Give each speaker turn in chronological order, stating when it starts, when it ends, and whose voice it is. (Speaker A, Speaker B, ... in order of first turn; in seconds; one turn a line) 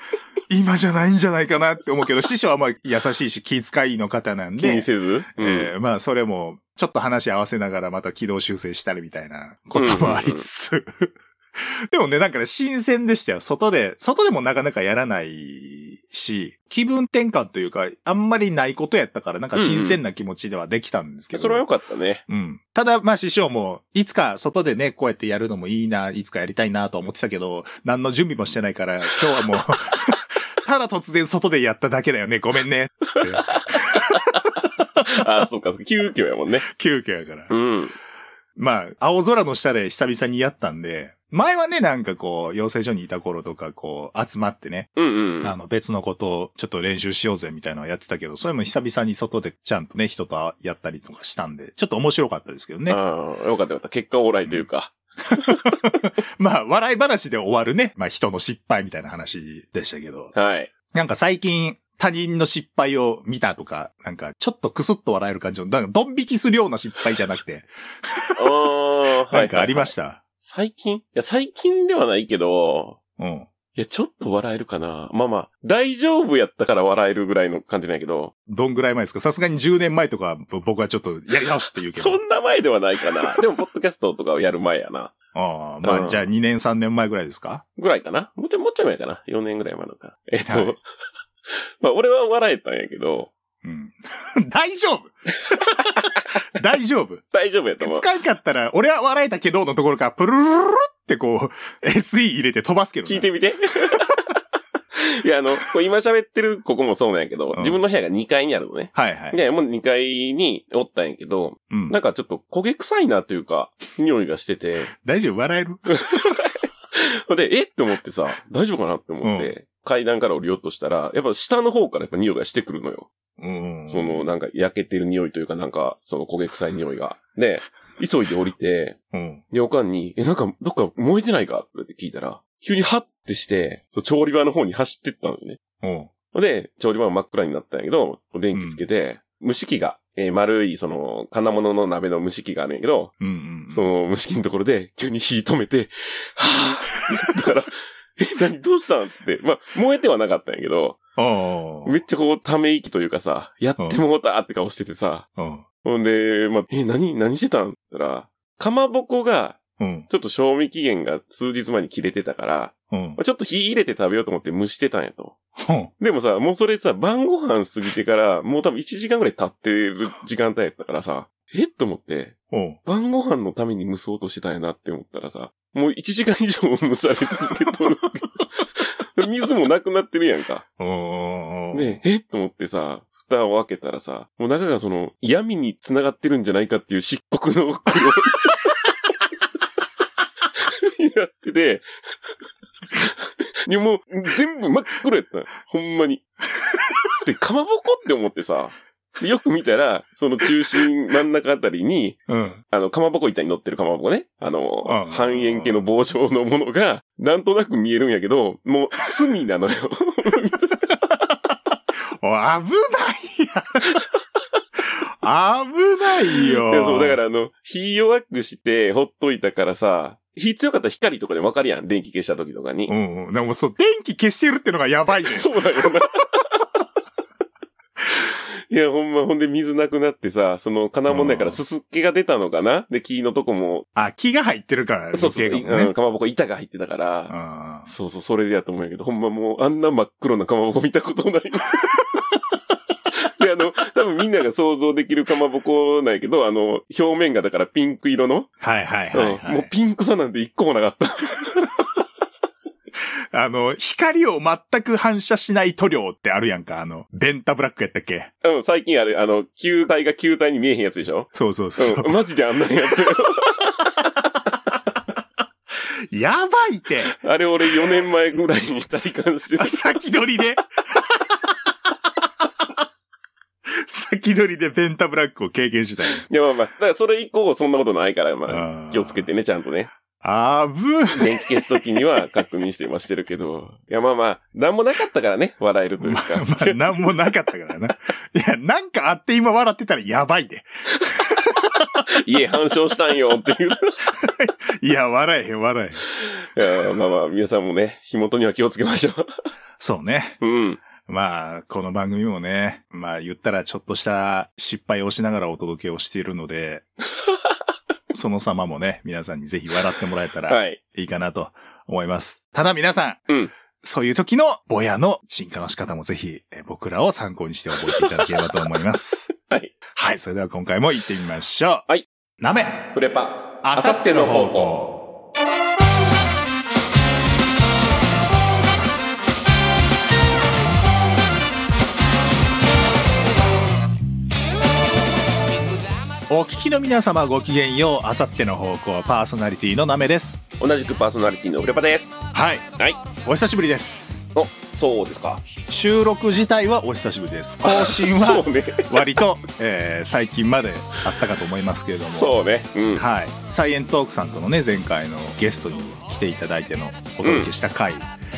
Speaker A: 0.5-21.7
Speaker B: 4.6-5.7
Speaker B: 9.8-10.4
Speaker B: 19.5-20.0
Speaker B: 21.3-22.2
Speaker A: 22.3-35.2
Speaker B: 33.1-36.7
Speaker A: 36.6-37.5
Speaker B: 37.5-38.0
Speaker A: 38.6-44.9
Speaker B: 45.0-45.5
Speaker A: 45.4-53.0
Speaker B: 52.9-55.8
Speaker A: 55.3-60.3
Speaker B: 60.4-60.7
Speaker A: 60.9-68.5
Speaker B: 68.4-73.0
Speaker A: 69.3-70.2
Speaker A: 73.2-73.5
Speaker B: 73.8-78.3
Speaker A: 78.5-82.2
Speaker B: 81.9-85.1
Speaker A: 85.3-87.6
Speaker B: 85.8-86.2
Speaker B: 87.8-90.8
Speaker A: 90.4-90.8
Speaker B: 91.5-93.3
Speaker A: 93.6-97.2
Speaker B: 97.3-98.0
Speaker A: 97.8-103.3
Speaker B: 103.1-104.1
Speaker B: 105.0-114.9
Speaker A: 107.5-107.8
Speaker A: 109.0-109.4
Speaker A: 111.7-112.0
Speaker A: 115.0-115.9
Speaker B: 116.0-123.1
Speaker A: 119.2-119.5
Speaker A: 123.4-124.3
Speaker B: 123.9-129.0
Speaker A: 129.1-129.4
Speaker B: 129.5-135.6
Speaker A: 135.8-136.1
Speaker B: 136.3-143.1
Speaker A: 138.5-138.8
Speaker A: 143.2-143.8
Speaker B: 143.7-151.0
Speaker A: 151.2-151.9
Speaker B: 151.8-155.2
Speaker A: 155.4-155.6
Speaker B: 155.8-165.4
Speaker A: 159.8-160.1
Speaker A: 162.9-163.2
Speaker A: 165.6-165.9
Speaker B: 166.0-180.6
Speaker A: 172.5-172.8
Speaker A: 180.8-182.0
Speaker B: 181.7-188.6
Speaker B: 190.6-191.9
Speaker B: 192.9-196.2
Speaker B: 197.2-202.2
Speaker A: 202.3-202.6
Speaker B: 202.7-210.8
Speaker A: 204.8-205.8
Speaker A: 212.2-214.0
Speaker A: 215.2-217.2
Speaker B: 216.4-222.9
Speaker A: 222.9-226.0
Speaker B: 225.2-226.6
Speaker B: 228.7-233.9
Speaker A: 231.1-231.6
Speaker A: 234.0-235.9
Speaker B: 235.1-237.3
Speaker A: 237.3-237.9
Speaker B: 237.9-242.0
Speaker B: 243.2-248.5
Speaker A: 248.6-249.7
Speaker B: 249.1-251.7
Speaker A: 253.3-258.3
Speaker B: 258.4-263.6
Speaker A: 261.3-262.2
Speaker A: 266.1-267.1
Speaker B: 267.2-270.0
Speaker A: 269.6-271.3
Speaker A: 273.7-276.2
Speaker B: 276.3-279.9
Speaker A: 278.5-279.2
Speaker A: 280.2-282.1
Speaker B: 281.1-287.1
Speaker A: 286.0-292.0
Speaker B: 292.1-294.0
Speaker A: 294.2-296.0
Speaker B: 296.1-299.3
Speaker A: 299.8-300.4
Speaker B: 300.4-300.8
Speaker A: 301.0-306.9
Speaker A: 308.1-313.2
Speaker B: 310.5-310.8
Speaker A: 313.8-319.3
Speaker B: 318.0-318.2
Speaker B: 319.4-319.7
Speaker A: 319.9-321.9
Speaker A: 322.4-322.9
Speaker B: 322.9-324.7
Speaker A: 323.6-324.9
Speaker A: 336.3-340.4
Speaker B: 340.6-342.1
Speaker A: 342.3-342.7
Speaker A: 343.2-344.3
Speaker B: 344.4-345.4
Speaker A: 345.7-352.4
Speaker B: 347.6-349.0
Speaker B: 351.9-353.1
Speaker A: 352.9-358.1
Speaker B: 357.2-357.5